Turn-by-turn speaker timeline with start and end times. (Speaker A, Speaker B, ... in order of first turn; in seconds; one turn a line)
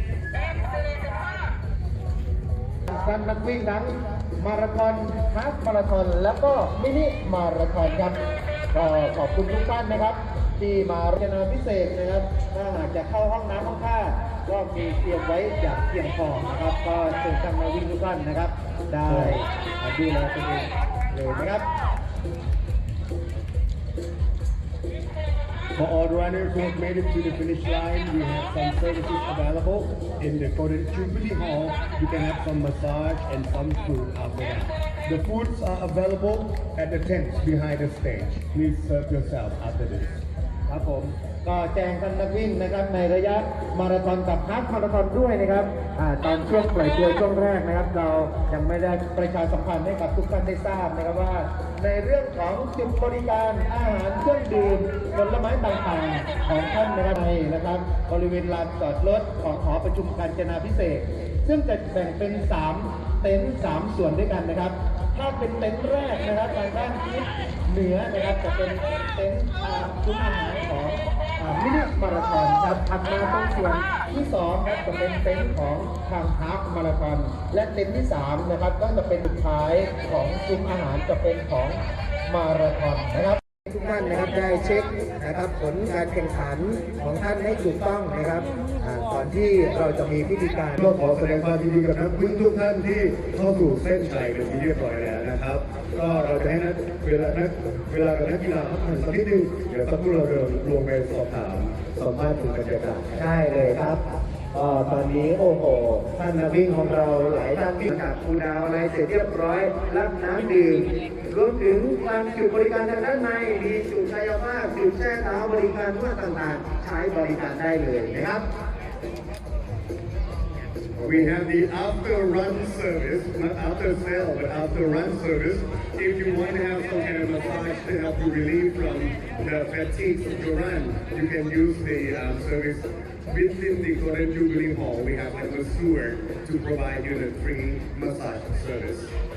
Speaker A: 2.9-8.2
Speaker A: 8.7-21.6
Speaker B: 19.1-19.4
Speaker B: 25.8-40.1
Speaker A: 40.7-91.2
Speaker B: 90.8-103.2
Speaker A: 103.2-104.0
Speaker A: 104.5-118.4
Speaker B: 121.0-139.2